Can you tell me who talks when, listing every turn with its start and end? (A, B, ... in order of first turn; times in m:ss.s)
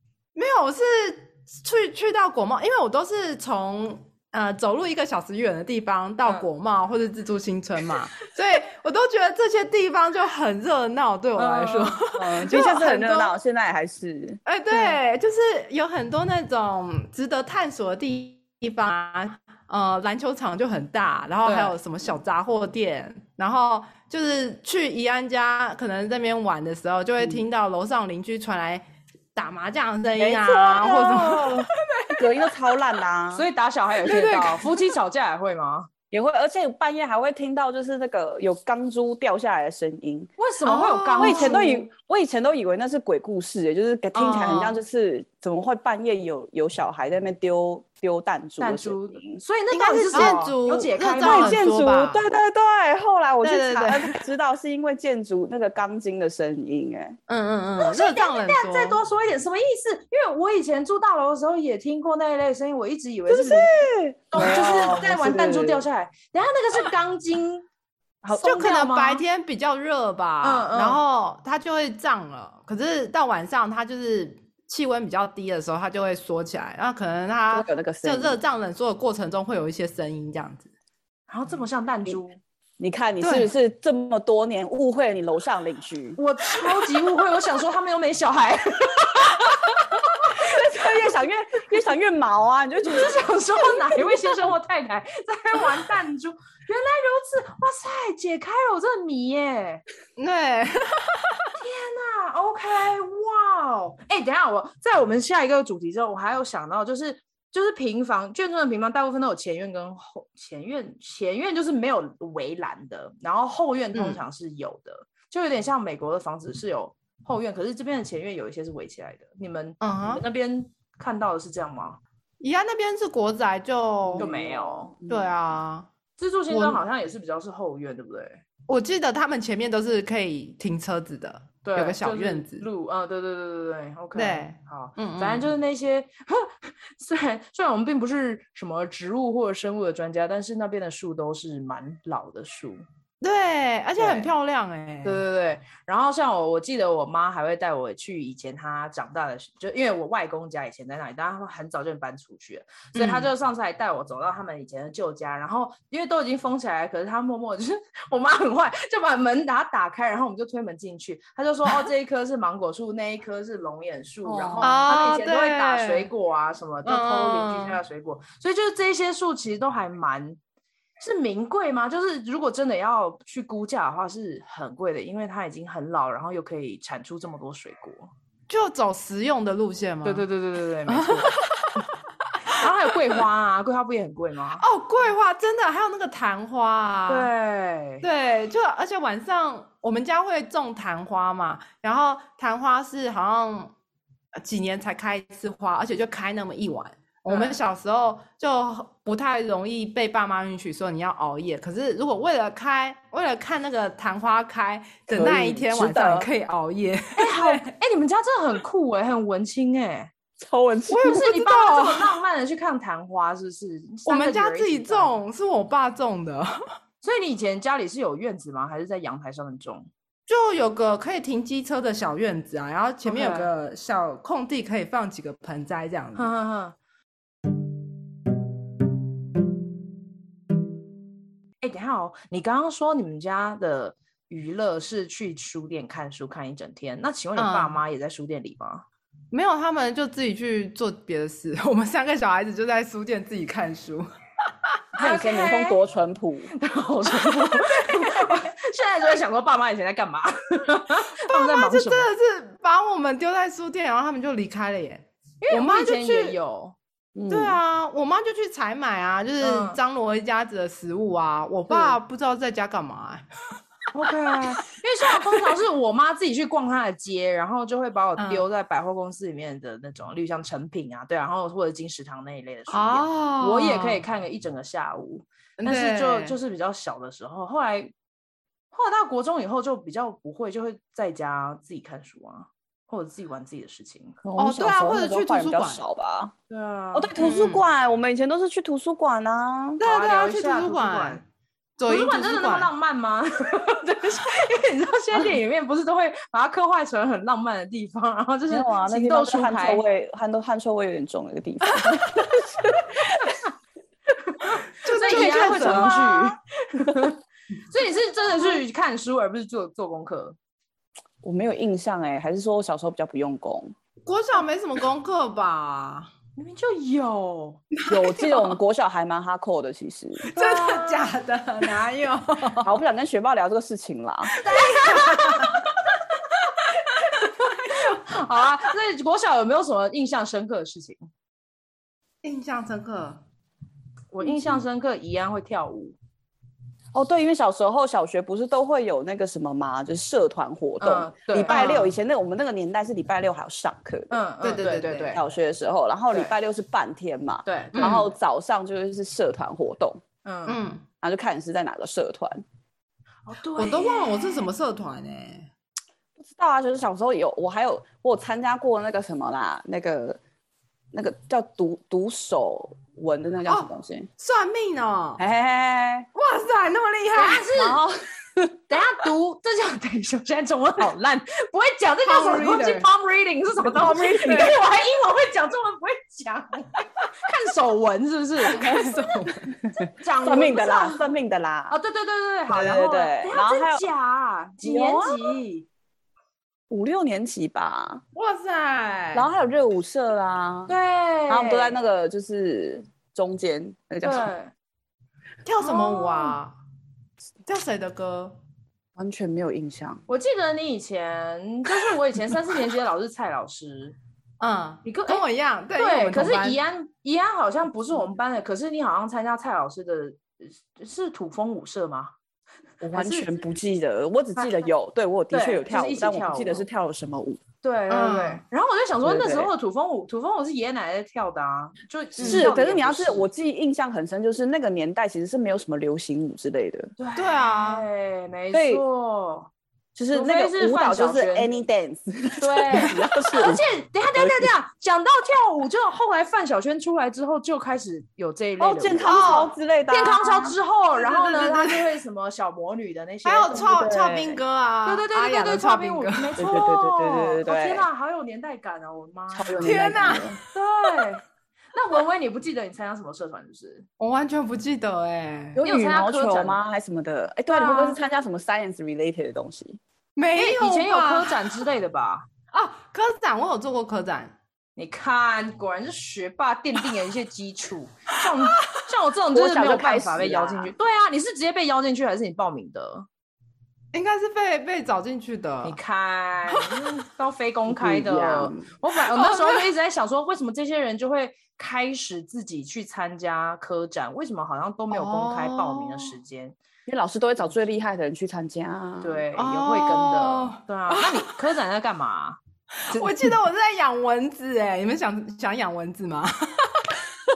0:00.4-0:13.4 A
0:11.4-0:12.0 B
0:12.2-0:14.4 C
0:14.5-0:28.8 A
0:14.7-0:15.0 B
0:21.4-0:21.8 B
0:29.4-0:32.5 A
0:30.2-0:33.5 C
0:33.3-0:35.9 B
0:34.0-0:34.5 C
0:34.1-0:34.7 A
0:36.1-0:40.3 C
0:40.4-0:41.9 B
0:40.7-0:41.6 A
0:41.2-0:49.4 C
0:44.2-0:44.7 B
0:48.6-0:51.6 B
0:49.7-0:52.2 A
0:50.1-0:50.5 C
0:51.2-0:57.2 C
0:53.4-0:54.2 A
0:57.3-0:59.0 A
0:57.8-1:03.7 B
1:03.3-1:05.8 C
1:04.3-1:07.7 B
1:08.2-1:09.2 B
1:08.4-1:20.7 A
1:10.4-1:11.0 B
1:17.5-1:18.4 C
1:21.3-1:22.4 B
1:22.8-1:26.2 C
1:23.2-1:23.5 A
1:26.2-1:30.4 B
1:30.2-1:34.2 C
1:32.8-1:39.8 B
1:40.2-1:41.5 A
1:41.6-2:02.0 B
1:53.9-1:54.2 A
1:59.8-2:00.2 A
2:02.4-2:04.3 A
2:04.0-2:05.3 C
2:04.2-2:05.0 B
2:05.1-2:05.9 A
2:06.2-2:08.4 B
2:06.5-2:06.8 A
2:08.7-2:12.7 A
2:11.6-2:22.8 B
2:14.2-2:15.5 A
2:23.2-2:25.2 A
2:24.0-2:24.3 B
2:25.0-2:50.4 B
2:33.0-2:33.3 A
2:44.2-2:44.9 C
2:44.6-2:46.1 A
2:46.8-2:47.8 A
2:51.0-2:58.1 B
2:58.5-3:00.2 A
3:00.0-3:01.8 B
3:00.9-3:01.8 A
3:02.5-3:04.6 B
3:04.6-3:07.3 A
3:07.1-3:08.0 B
3:08.0-3:13.7 A
3:14.4-3:27.6 A
3:17.3-3:17.6 B
3:25.1-3:26.3 C
3:27.2-3:30.1 B
3:30.4-3:31.2 C
3:30.9-3:32.1 A
3:31.0-3:35.1 B
3:34.1-3:36.6 A
3:37.0-3:39.9 B
3:40.3-3:46.3 A
3:43.0-3:43.5 B
3:46.2-3:46.8 B
3:51.6-3:58.8 B
3:57.4-3:57.8 A
3:59.3-4:04.1 A
4:05.0-4:06.5 C
4:05.0-4:05.8 B
4:06.6-4:12.1 B
4:11.3-4:16.4 A
4:15.4-4:16.8 B
4:17.2-4:17.6 C
4:17.3-4:23.2 A
4:19.4-4:19.8 B
4:21.7-4:22.0 B
4:23.9-4:37.9 B
4:28.2-4:28.4 A
4:32.7-4:34.0 A
4:35.6-4:36.4 A
4:38.7-4:44.2 B
4:44.2-4:46.3 C
4:44.4-4:45.8 A
4:46.5-4:47.1 B
4:46.9-4:49.8 C
4:47.2-4:47.6 A
4:49.8-4:51.2 A
4:49.8-4:51.2 B
4:51.8-4:52.7 A
4:51.9-4:59.8 B
4:58.5-5:03.4 C
5:01.7-5:02.2 A
5:04.4-5:07.2 B
5:04.8-5:06.2 A
5:05.1-5:06.0 C
5:07.7-5:10.4 B
5:11.2-5:13.8 C
5:14.1-5:16.1 A
5:16.4-5:17.6 B
5:17.8-5:18.6 A
5:17.9-5:20.3 C
5:20.3-5:21.1 B
5:20.3-5:22.8 A
5:22.6-5:24.3 C
5:24.4-5:25.6 B
5:24.4-5:25.6 A
5:27.0-5:31.0 B
5:27.6-5:28.0 A
5:32.2-5:33.2 A
5:34.1-5:36.0 B
5:36.9-5:44.1 C
5:40.8-5:41.7 B
5:41.5-5:42.0 A
5:44.1-5:45.2 B
5:44.4-5:45.2 A
5:45.1-5:50.0 C
5:47.4-5:48.1 B
5:47.8-5:48.1 A
5:50.2-5:50.6 B
5:50.5-5:50.8 A
5:51.0-5:52.4 C
5:53.3-5:54.5 B
5:53.6-5:55.5 A
5:56.2-6:00.2 C
6:00.9-6:04.1 C
6:03.5-6:05.2 A
6:05.2-6:06.1 C
6:06.2-6:07.4 A
6:07.1-6:07.8 B
6:07.6-6:08.6 C
6:08.7-6:19.1 B
6:12.0-6:12.9 A
6:13.6-6:14.6 C
6:14.2-6:14.5 A
6:18.5-6:19.5 A
6:18.5-6:18.9 C
6:19.7-6:21.8 C
6:19.8-6:21.1 B
6:21.7-6:25.7 B
6:22.5-6:23.8 C
6:24.6-6:25.4 C
6:26.7-6:28.0 C
6:28.2-6:29.3 A
6:29.1-6:30.7 C
6:30.7-6:31.8 B
6:31.3-6:34.3 C
6:34.0-6:34.5 B
6:35.5-6:36.5 A
6:35.6-6:36.4 B
6:37.5-6:38.4 A
6:39.0-6:40.0 C
6:40.1-6:44.0 B
6:44.4-6:46.6 A
6:44.8-6:45.2 B
6:45.8-6:52.1 B
6:52.8-6:57.4 C
6:52.9-6:53.4 B
6:55.3-6:56.6 B
6:57.6-7:03.3 B
6:57.9-6:58.4 A
6:59.0-6:59.5 C
7:02.2-7:06.9 C
7:02.2-7:02.5 A
7:07.0-7:09.5 B
7:07.2-7:07.8 A
7:08.5-7:08.8 C
7:10.0-7:13.6 C
7:10.1-7:11.5 B
7:12.4-7:23.8 B
7:14.2-7:14.5 C
7:18.6-7:20.6 C
7:19.0-7:19.5 A
7:20.9-7:21.9 A
7:23.2-7:26.4 A
7:23.5-7:24.4 C
7:24.8-7:30.0 B
7:26.4-7:27.9 C
7:29.3-7:30.4 C
7:29.6-7:31.0 A
7:30.5-7:31.2 B
7:31.7-7:33.9 B
7:34.0-7:35.6 A
7:35.6-7:36.6 B
7:35.6-7:39.8 C
7:37.5-7:38.0 B
7:40.2-7:41.4 A
7:40.4-7:42.3 B
7:42.5-7:44.4 A
7:44.8-7:53.1 B
7:49.3-7:50.7 C
7:53.9-7:55.8 A
7:55.6-8:06.6 B
7:56.5-7:56.8 A
7:57.7-7:58.7 C
7:59.1-7:59.7 A
8:04.9-8:06.2 A
8:06.9-8:09.2 C
8:09.0-8:12.4 B
8:09.4-8:11.3 A
8:12.9-8:13.2 B
8:12.9-8:17.0 A